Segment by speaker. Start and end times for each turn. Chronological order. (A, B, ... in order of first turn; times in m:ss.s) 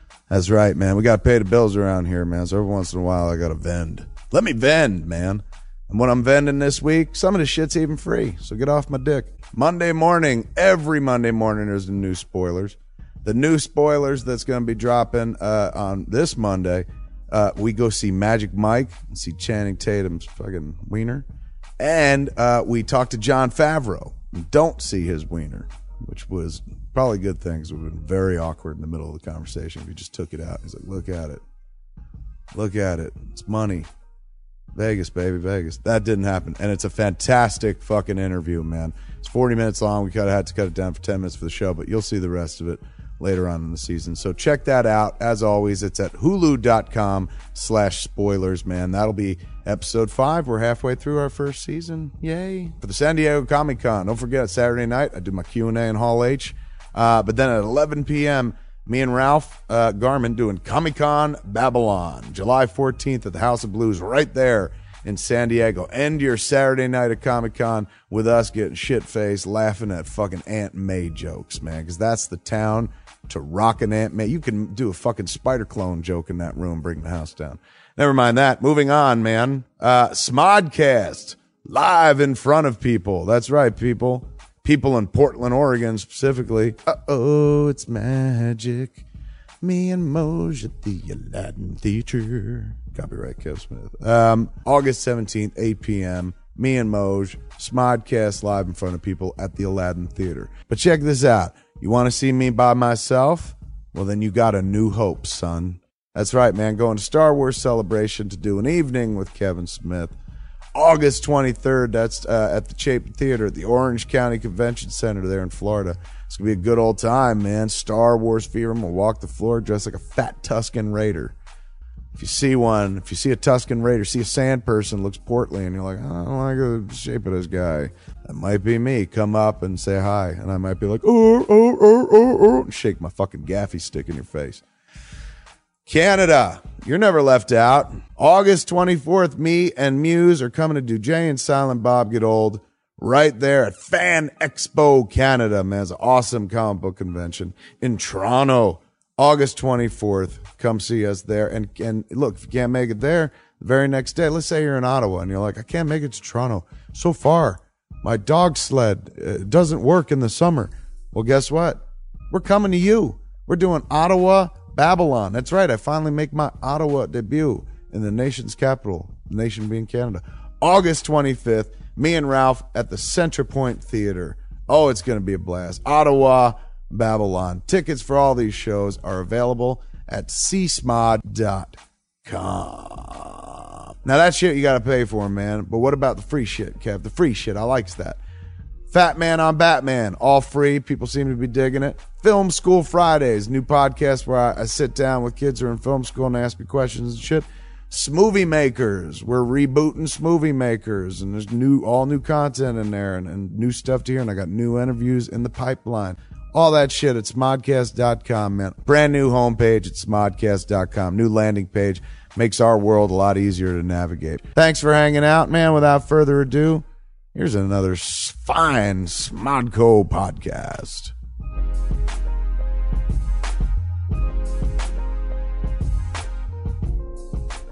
0:00.3-0:21.2 A
0:21.8-0:31.4 A
0:32.5-0:33.9 A
0:34.8-1:29.0 A
1:29.6-1:50.1 A
1:50.7-2:01.3 A
2:02.1-2:14.6 A
2:15.9-3:08.2 A
3:08.9-3:41.1 A